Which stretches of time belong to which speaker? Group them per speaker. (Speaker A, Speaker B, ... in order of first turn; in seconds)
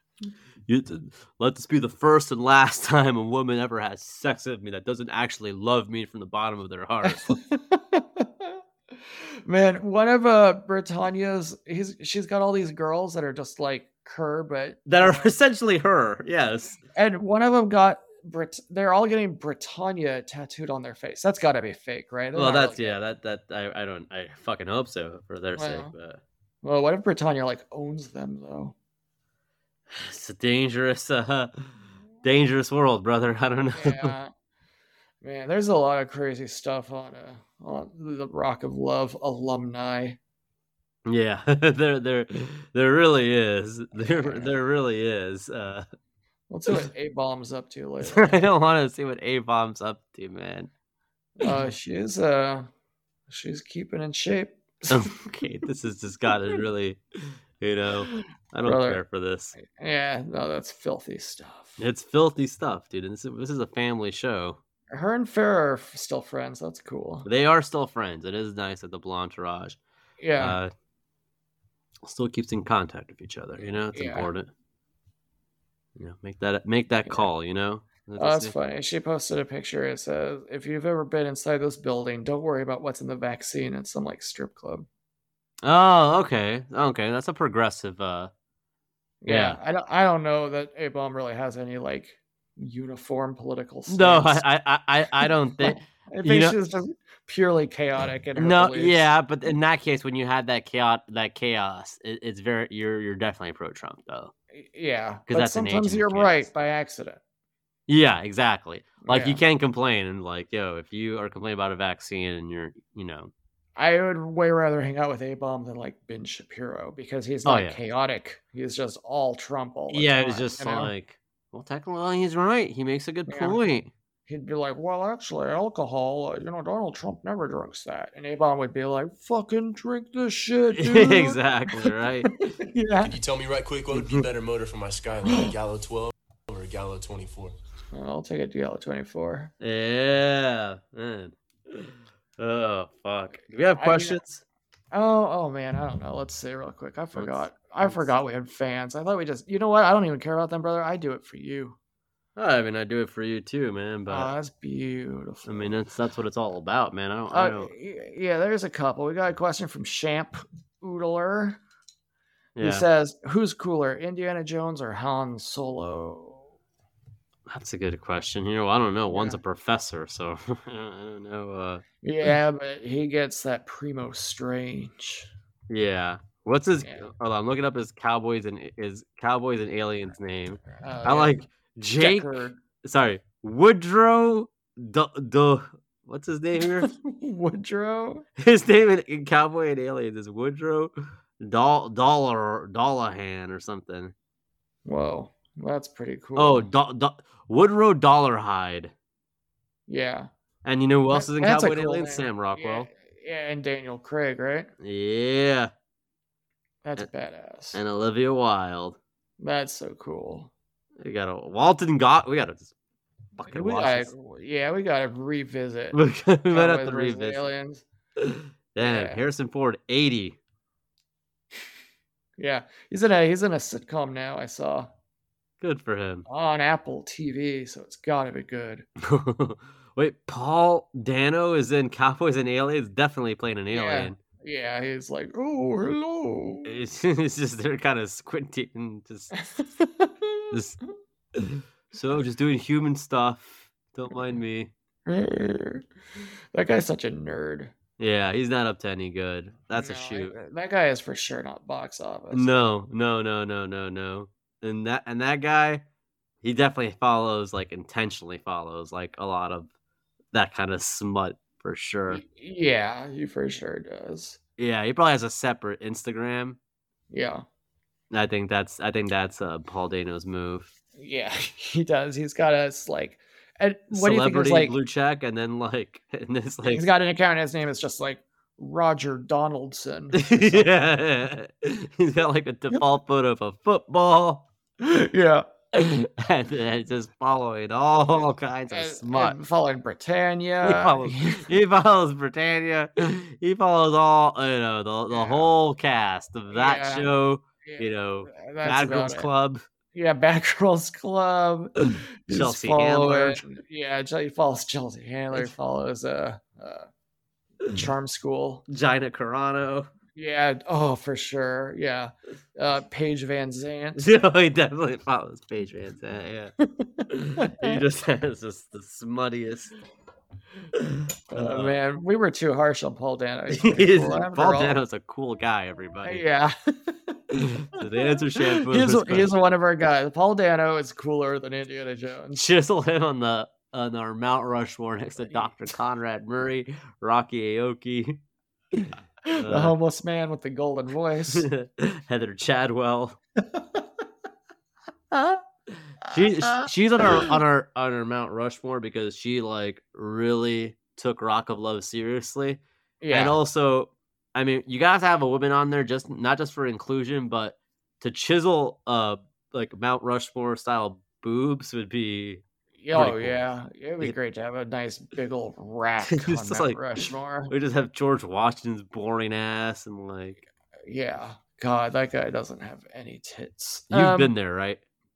Speaker A: 0.7-7.4, 14.9-16.8, 22.4-26.2, 29.9-31.7, 32.2-34.1, 41.1-45.9, 48.0-50.7, 51.4-51.7, 54.9-57.0, 57.6-59.5, 61.8-64.6, 67.3-69.8, 70.4-70.7, 72.0-74.5, 76.0-78.5, 85.6-88.3, 89.3-89.6, 93.9-96.6, 98.4-104.3, 105.3-106.5, 107.9-113.3, 117.5-117.8, 119.9-123.9, 130.8-132.4, 139.6-144.4, 147.2-148.1, 152.4-154.3, 155.5-157.7, 162.6-162.8, 167.5-171.8, 175.7-186.9, 188.4-194.1, 196.4-198.9, 200.7-202.9, 204.8-205.7, 207.7-209.0, 211.0-212.7, 213.4-214.1, 215.9-217.5, 218.2-220.4, 225.6-226.3, 229.0-234.2, 236.7-239.3, 240.5-240.8, 241.4-244.7, 248.0-250.3, 252.3-255.8, 256.4-259.7, 260.3-262.2, 264.6-266.6, 268.1-270.7, 273.9-276.9, 280.1-284.5, 285.7-289.4, 290.6-299.6, 301.8-303.4, 307.6-307.9, 308.7-309.9, 314.0-316.5, 317.1-319.7, 321.3-321.8, 323.5-326.2, 327.7-329.3, 332.4-338.2, 338.8-339.8, 341.3-343.2, 346.0-363.4, 366.1-370.4, 373.9-374.8
Speaker B: 7.1-8.6, 9.5-15.3, 16.9-23.0, 25.6-25.9, 26.6-28.8, 33.8-34.3, 35.2-40.2, 44.0-44.5, 46.5-48.4, 51.4-52.7, 53.3-55.0, 58.1-59.0, 59.6-61.8, 64.9-67.3, 70.2-70.6, 73.9-74.3, 77.0-77.3, 78.2-84.9, 89.2-94.4, 95.2-99.0, 104.5-107.2, 109.0-109.4, 113.8-120.9, 123.3-123.6, 124.3-131.9, 132.5-133.1, 137.9-139.5, 143.8-144.2, 144.9-151.8, 154.1-155.7, 157.3-161.6, 162.6-166.5, 169.1-169.4, 172.0-175.3, 180.7-181.4, 182.0-182.6, 186.8-188.3, 194.9-196.7, 199.9-200.3, 201.1-204.7, 206.8-207.8, 209.4-210.5, 213.5-216.0, 216.5-217.8, 218.8-219.2, 222.4-224.9, 226.3-228.8, 233.7-236.7, 239.4-240.4, 245.1-245.9, 246.5-247.7, 249.7-252.6, 262.1-264.4, 267.1-267.4, 271.0-274.8, 276.7-280.7, 284.8-285.5, 288.1-291.4, 295.1-295.5, 296.5-297.1, 297.6-299.3, 299.9-306.9, 307.7-308.6, 310.1-314.0, 316.6-317.8, 321.3-324.8, 326.1-327.2, 328.4-332.4, 339.3-341.5, 346.1-347.3, 353.0-353.4, 362.8-367.5, 370.9-374.3
Speaker C: 133.1-137.6